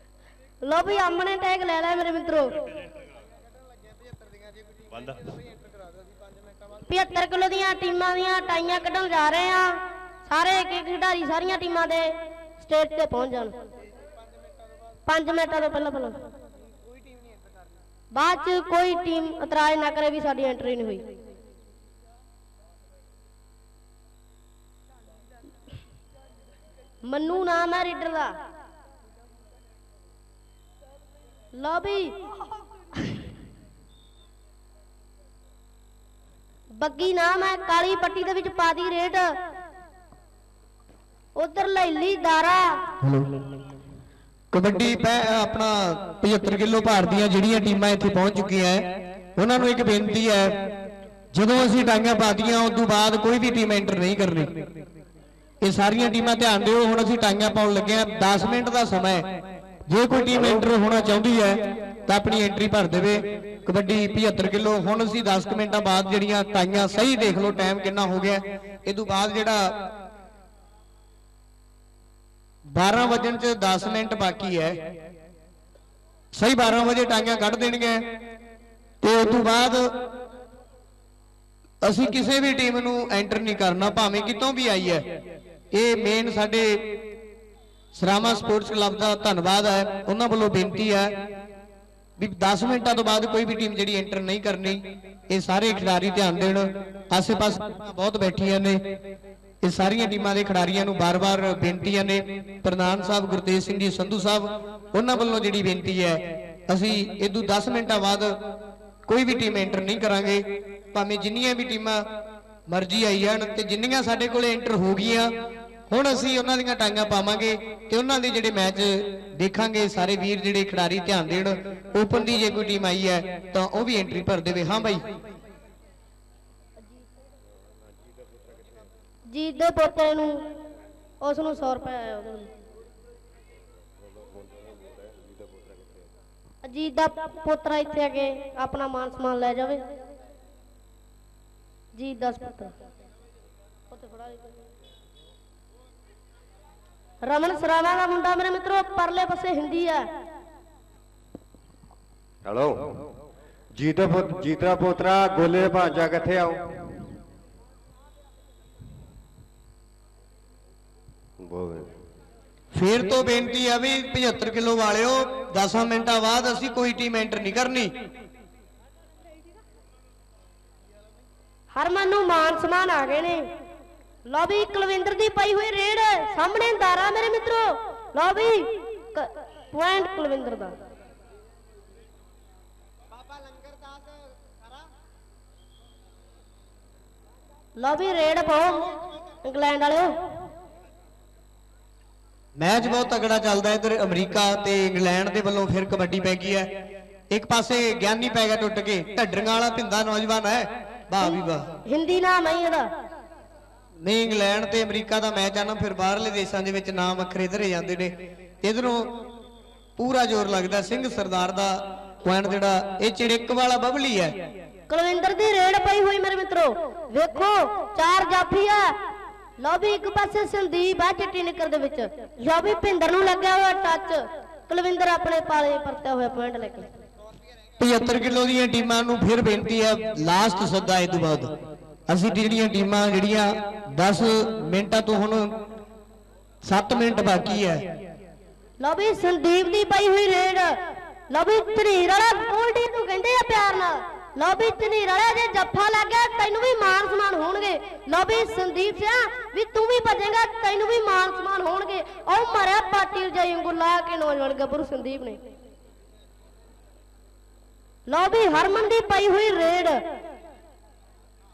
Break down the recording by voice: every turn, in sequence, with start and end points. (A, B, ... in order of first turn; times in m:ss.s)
0:00.6-0:02.6 A
0:06.9-0:13.6 A
0:15.1-0:16.2 A
0:18.2-0:21.0 A
0:27.0-0:28.3 A
0:31.6-0:32.2 A
0:36.8-0:39.3 A
0:41.4-0:42.8 A
0:44.5-0:50.6 B
0:51.3-0:54.5 B
0:55.6-0:59.3 B
0:59.9-1:09.7 B
1:12.7-1:14.8 B
1:16.3-1:18.0 B
1:19.0-1:19.8 B
1:21.8-1:25.0 B
1:25.7-1:26.7 B
1:28.0-1:31.1 B
1:32.2-1:38.8 B
1:39.6-1:48.4 B
1:49.1-1:52.0 B
1:52.7-1:55.3 B
1:55.9-2:05.0 B
2:07.7-2:08.9 C
2:09.3-2:10.4 A
2:11.2-2:12.5 A
2:14.0-2:16.1 C
2:16.6-2:19.8 A
2:22.0-2:22.7 A
2:23.9-2:24.6 A
2:27.2-2:30.1 A
2:32.4-2:33.1 C
2:33.7-2:36.6 C
2:41.4-2:41.9 C
2:42.7-2:47.9 B
2:51.8-2:53.4 A
2:54.3-3:00.8 A
3:07.8-3:08.9 A
3:09.4-3:10.1 A
3:12.6-3:16.7 B
3:17.3-3:21.7 B
3:21.9-3:22.9 A
3:24.0-3:29.1 B
3:30.0-3:34.4 B
3:34.9-3:38.9 A
3:39.6-3:46.9 A
3:47.8-3:51.5 B
3:52.1-3:55.6 B
3:56.6-3:57.8 B
3:58.8-4:00.8 A
4:01.3-4:15.4 A
4:18.1-4:20.0 A